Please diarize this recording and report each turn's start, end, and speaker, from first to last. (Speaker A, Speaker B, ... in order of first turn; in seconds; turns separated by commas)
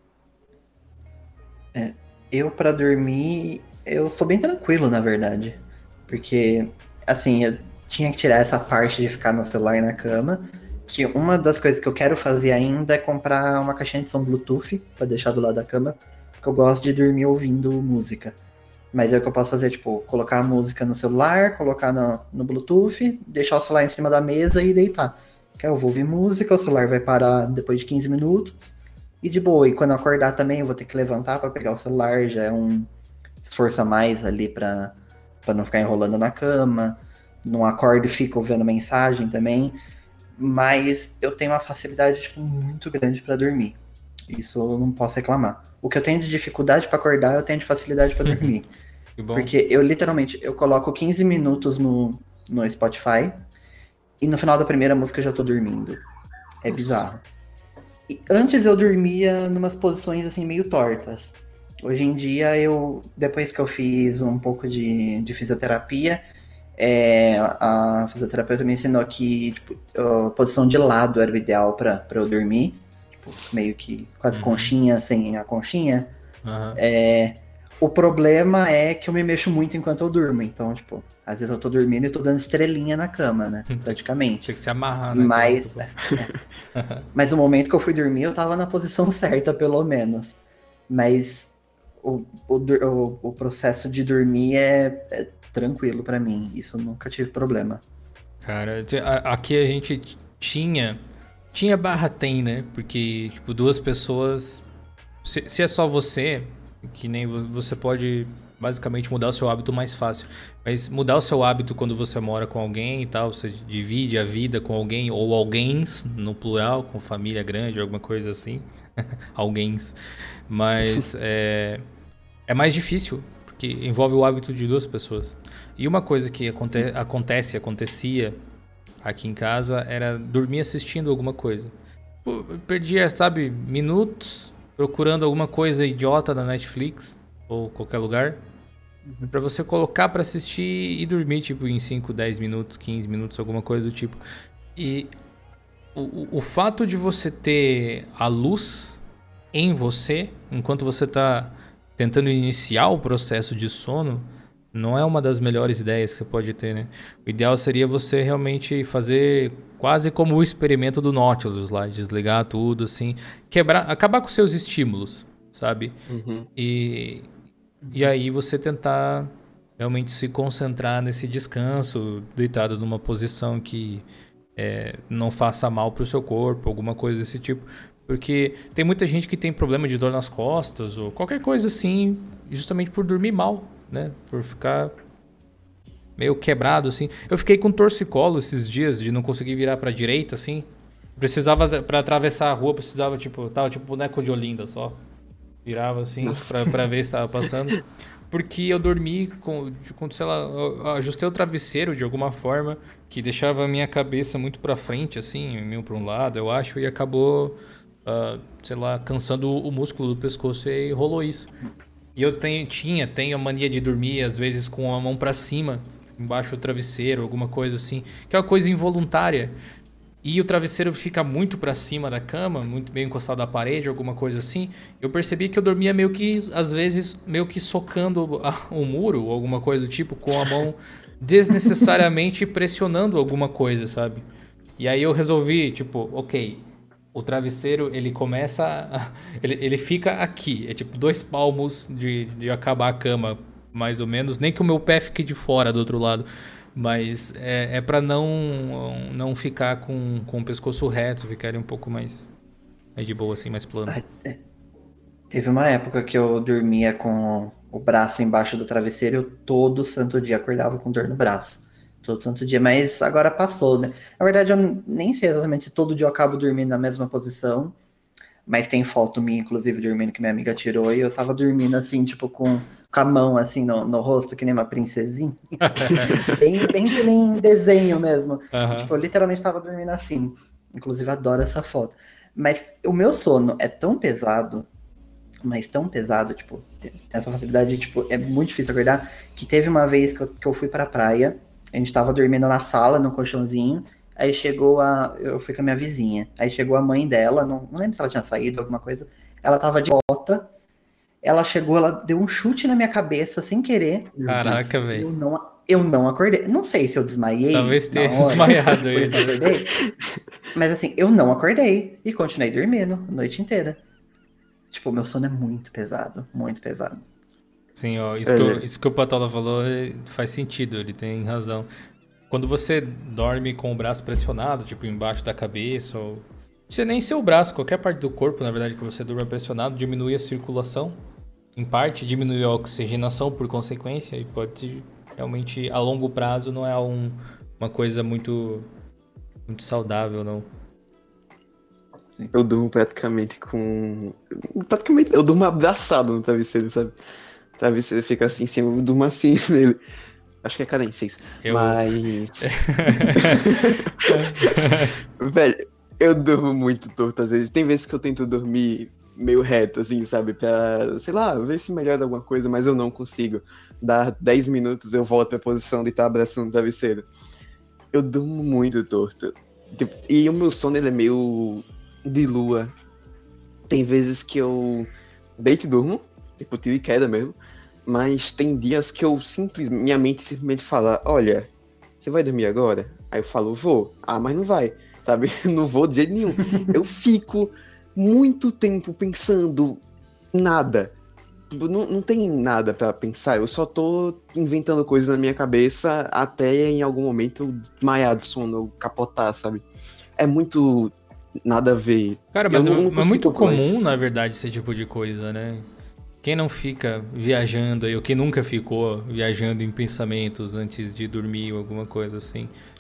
Speaker A: 1.7-18.4, Speaker A: 18.9-32.9, Speaker A: 33.4-39.8, Speaker A: 40.4-43.8, Speaker A: 44.3-48.7, Speaker B: 49.2-49.5, Speaker A: 49.3-53.4, Speaker A: 54.2-56.0, Speaker A: 56.6-57.2, Speaker C: 56.7-57.0, Speaker A: 58.1-66.2, Speaker A: 66.8-76.1, Speaker B: 74.3-74.7, Speaker B: 76.5-76.8, Speaker A: 76.8-84.5, Speaker B: 83.7-85.9, Speaker A: 85.1-86.3, Speaker B: 86.8-87.1, Speaker A: 87.1-90.4, Speaker A: 90.9-97.8, Speaker B: 98.4-101.0, Speaker B: 101.5-104.6, Speaker B: 105.2-118.7, Speaker B: 119.3-120.0, Speaker B: 120.5-121.8, Speaker B: 122.5-128.3, Speaker B: 129.0-131.7, Speaker B: 132.2-138.4, Speaker A: 139.1-139.3, Speaker B: 139.3-144.2, Speaker B: 144.8-145.1, Speaker B: 145.9-149.0, Speaker B: 149.5-165.9, Speaker C: 166.1-166.5, Speaker B: 166.6-167.3, Speaker A: 167.8-168.1, Speaker B: 167.9-184.9, Speaker B: 186.2-190.7, Speaker B: 191.2-195.0, Speaker B: 195.7-197.8, Speaker C: 196.2-196.8, Speaker B: 198.3-211.5, Speaker B: 212.2-219.5, Speaker B: 220.2-234.2, Speaker B: 234.8-236.6, Speaker B: 237.1-252.3, Speaker B: 253.0-254.0, Speaker A: 253.9-254.4, Speaker A: 255.3-267.8, Speaker A: 268.5-284.7, Speaker B: 275.6-276.4, Speaker B: 278.5-278.9, Speaker A: 285.4-300.4, Speaker A: 301.2-309.7, Speaker B: 304.2-305.1, Speaker B: 307.5-309.5, Speaker A: 310.5-313.8, Speaker A: 314.7-317.1, Speaker B: 317.8-321.7, Speaker C: 318.3-318.6, Speaker B: 322.3-331.0, Speaker B: 331.6-338.7, Speaker B: 339.5-340.5, Speaker C: 342.3-347.0, Speaker C: 347.6-349.8, Speaker C: 350.4-367.1, Speaker B: 351.4-351.8, Speaker B: 352.4-354.9, Speaker C: 367.9-372.7, Speaker C: 373.7-381.5, Speaker C: 382.0-389.8, Speaker C: 390.3-390.9, Speaker C: 391.5-399.6, Speaker C: 400.2-400.9, Speaker C: 401.4-403.8, Speaker B: 402.3-405.7, Speaker B: 406.2-412.5